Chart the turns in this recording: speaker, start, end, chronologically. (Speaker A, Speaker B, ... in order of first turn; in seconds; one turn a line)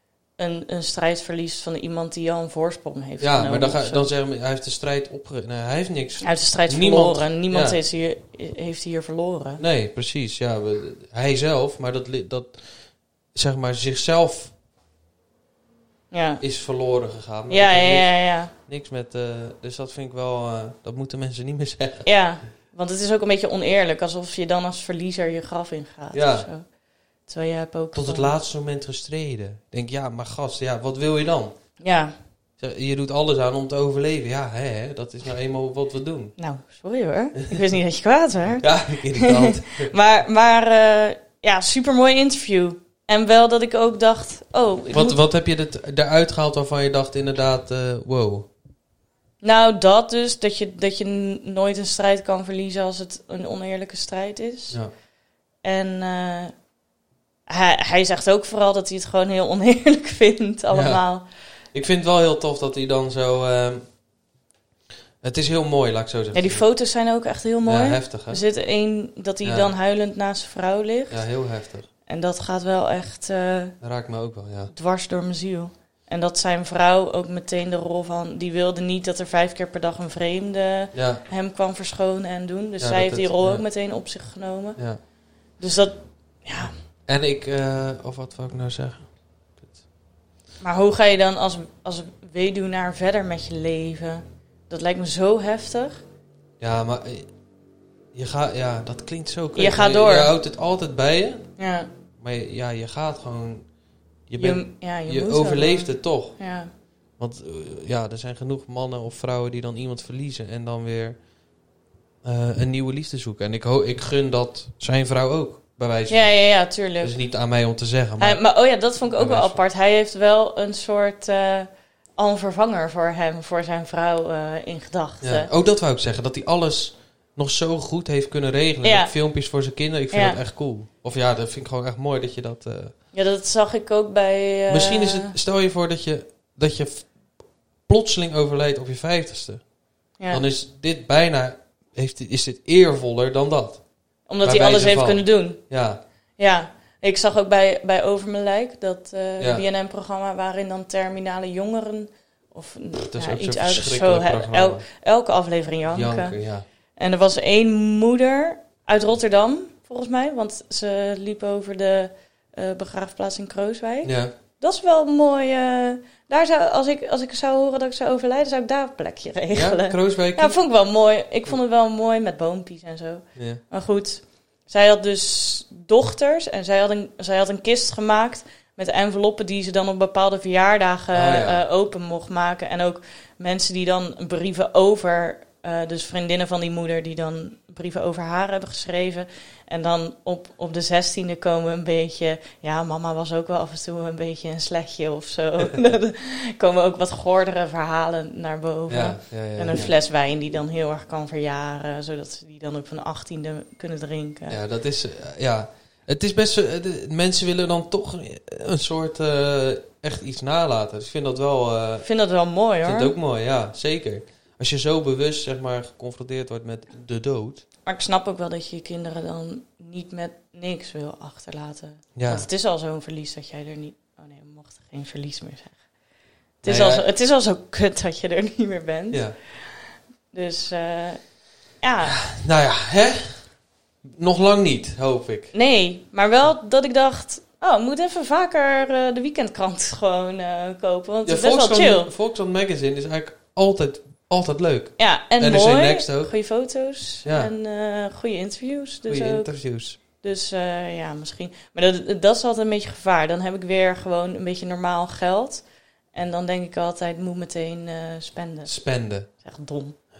Speaker A: 0.4-4.1
Speaker B: 3.2-7.8
Speaker A: 6.2-9.6
Speaker B: 9.6-12.7
Speaker B: 13.3-14.5
Speaker A: 16.1-16.4
Speaker B: 16.4-22.1
Speaker A: 17.5-18.5
Speaker A: 22.0-26.6
Speaker B: 26.1-26.5
Speaker A: 27.3-28.3
Speaker B: 27.9-31.5
Speaker A: 31.8-32.1
Speaker B: 32.6-36.3
Speaker A: 36.4-45.2
Speaker B: 38.6-39.9
Speaker B: 44.9-48.5
Speaker A: 49.4-54.8
Speaker A: 55.6-56.5
Speaker A: 57.5-61.2
Speaker B: 60.7-61.0
Speaker B: 61.7-63.8
Speaker B: 65.2-66.6
Speaker A: 66.3-71.2
Speaker B: 67.6-68.4
Speaker B: 69.4-69.7
Speaker B: 71.1-71.9
Speaker A: 72.1-73.8
Speaker B: 73.8-74.7
Speaker A: 74.7-84.8
Speaker B: 80.9-81.2
Speaker B: 82.8-83.6
Speaker A: 85.6-86.7
Speaker B: 87.1-89.7
Speaker A: 90.6-96.0
Speaker B: 96.6-97.3
Speaker B: 98.1-101.5
Speaker A: 99.5-100.3
Speaker A: 101.6-101.9
Speaker B: 102.2-103.7
Speaker B: 104.3-106.4
Speaker A: 104.4-106.7
Speaker B: 107.2-111.2
Speaker B: 112.2-116.3
Speaker A: 116.1-117.1
Speaker B: 117.0-118.4
Speaker A: 118.2-125.5
Speaker B: 119.1-119.6
Speaker B: 125.2-132.9
Speaker A: 128.8-129.1
Speaker A: 130.1-130.4
Speaker A: 133.1-135.3
Speaker B: 134.7-137.1
Speaker B: 137.8-139.6
Speaker A: 140.2-140.4
Speaker B: 140.3-143.8
Speaker A: 144.3-145.6
Speaker B: 144.4-146.0
Speaker A: 146.4-156.3
Speaker B: 153.1-154.8
Speaker B: 155.9-156.6
Speaker A: 157.0-204.6
Speaker B: 164.0-164.3
Speaker B: 169.5-170.6
Speaker B: 173.3-173.6
Speaker B: 181.1-181.6
Speaker B: 198.9-199.9
Speaker B: 204.5-212.1
Speaker A: 212.0-213.1
Speaker B: 212.8-217.6
Speaker A: 217.8-225.8
Speaker B: 222.1-222.4
Speaker A: 226.6-229.3
Speaker B: 226.6-227.0
Speaker B: 229.1-229.3
Speaker A: 230.3-231.2
Speaker A: 231.8-232.2
Speaker B: 232.1-233.4
Speaker B: 234.0-235.5
Speaker A: 235.5-242.1
Speaker B: 241.2-246.3
Speaker A: 245.0-249.5
Speaker B: 247.2-247.5
Speaker B: 249.1-250.0
Speaker A: 250.2-255.6
Speaker A: 256.1-258.7
Speaker B: 258.6-259.3
Speaker A: 259.3-259.9